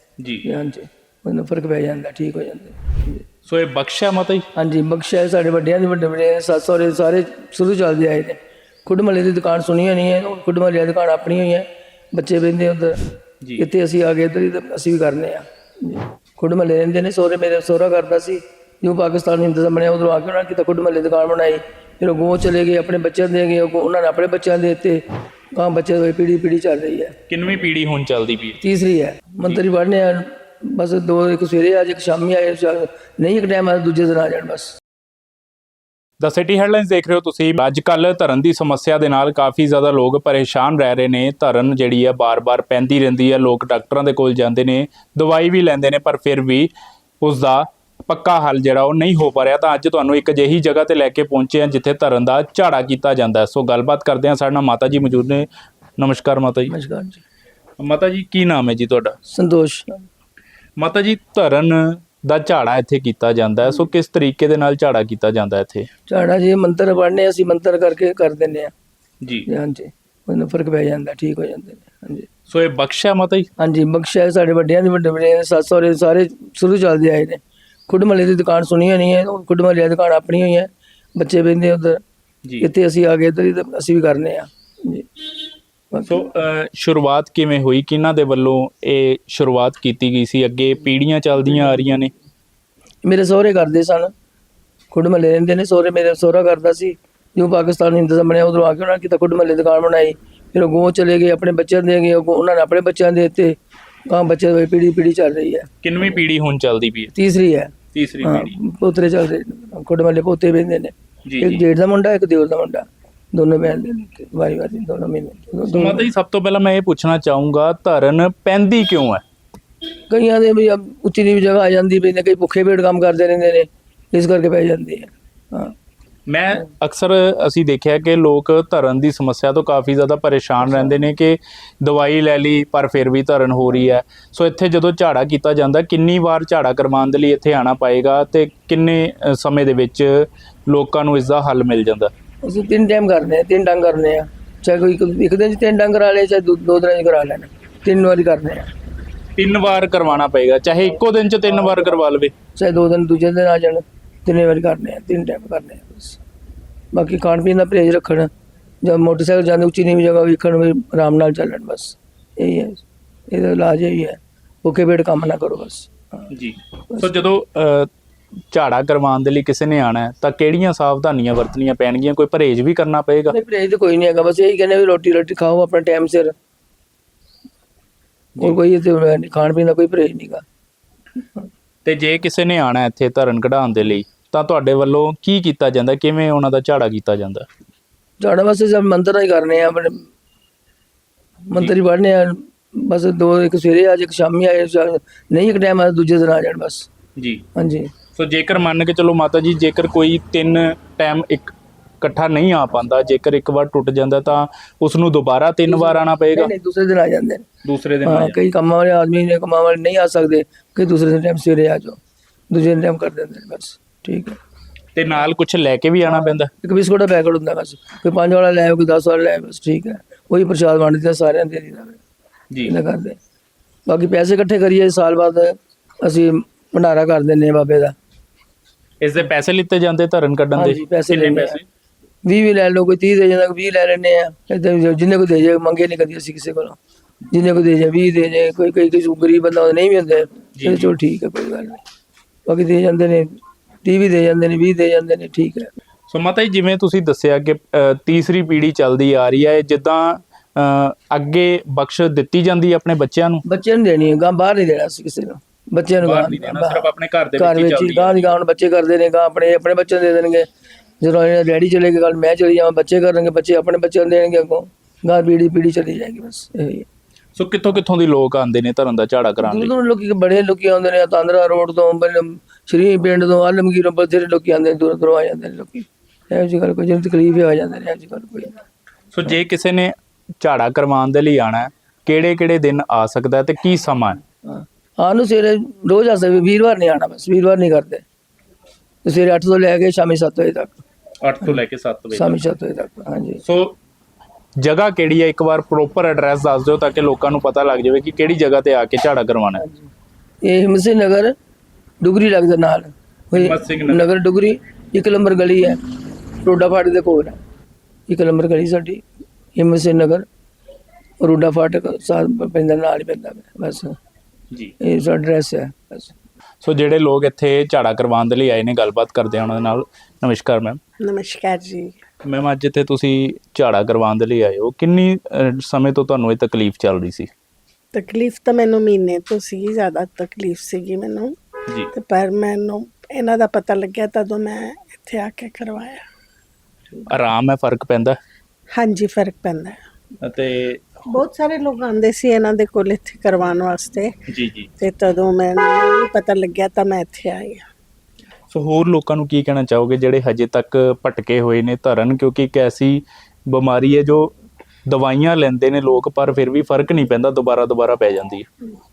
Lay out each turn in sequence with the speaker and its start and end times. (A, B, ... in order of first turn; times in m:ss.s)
0:00.2-0:00.4 A
0:00.4-0:03.2 B
0:03.4-0:04.4 A
0:04.5-0:13.0 B
0:13.6-0:25.0 B
0:25.5-0:27.1 B
0:27.3-0:28.6 A
0:28.6-0:34.8 B
0:36.2-0:46.7 A
0:47.2-0:55.5 A
0:56.0-0:56.7 A
0:56.7-0:57.2 B
0:57.8-0:59.2 A
0:59.3-1:00.0 B
1:00.8-1:05.9 A
1:06.1-1:08.7 B
1:09.2-1:09.5 A
1:09.5-1:12.3 B
1:12.5-1:13.5 A
1:13.6-1:22.0 B
1:22.6-1:25.1 B
1:25.9-1:26.2 B
1:26.0-1:32.1 A
1:33.0-1:34.1 B
1:34.9-1:43.6 B
1:44.1-1:45.7 B
1:45.8-1:47.1 A
1:47.1-1:56.1 B
1:47.9-1:48.6 A
1:51.2-1:51.6 A
1:55.7-1:59.2 A
2:00.1-2:05.7 B
2:06.3-2:22.1 A
2:22.4-2:28.7 B
2:29.4-2:32.3 A
2:32.6-2:36.2 B
2:36.9-2:38.3 B
2:38.8-2:46.3 B
2:46.3-2:47.9 A
2:46.9-2:47.2 B
2:48.5-2:53.3 A
2:53.3-2:56.3 B
2:58.4-3:00.4 B
3:01.8-3:07.4 A
3:08.2-3:10.1 B
3:11.5-3:16.9 B
3:17.2-3:17.4 A
3:17.5-3:17.9 B
3:18.1-3:26.5 A
3:25.7-3:27.4 B
3:27.6-3:28.4 A
3:28.0-3:32.0 B
3:32.5-3:34.4 B
3:34.9-3:36.5 A
3:36.1-3:42.0 B
3:42.6-3:43.2 B
3:43.9-3:47.9 B
3:49.0-3:51.6 A
3:50.5-3:51.6 B
3:52.2-3:56.8 B
3:57.3-4:01.8 B
4:00.6-4:00.9 A
4:02.5-4:05.7 B
4:06.1-4:13.4 A
4:13.4-4:20.5 B
4:16.0-4:18.3 A
4:21.0-4:26.8 B
4:27.4-4:29.7 A
4:29.4-4:38.6 B
4:39.1-4:44.2 A
4:44.4-4:48.0 B
4:49.0-4:50.8 B
4:51.2-4:52.3 A
4:52.1-4:53.4 B
4:53.4-4:53.8 A
4:54.6-4:59.6 A
5:00.4-5:01.3 B
5:02.0-5:05.8 B
5:03.3-5:04.0 A
5:06.4-5:07.4 B
5:08.1-5:09.0 B
5:09.6-5:10.2 B
5:11.2-5:14.0 B
5:14.8-5:16.1 B
5:16.6-5:20.8 A
5:21.0-5:22.0 C
5:22.2-5:27.3 A
5:27.9-5:31.4 C
5:31.9-5:36.0 C
5:37.1-5:38.2 A
5:38.7-5:39.8 C
5:40.2-5:40.8 A
5:41.0-5:44.1 C
5:44.3-5:44.7 A
5:44.8-5:47.6 C
5:48.5-5:54.3 A
5:54.9-5:58.4 A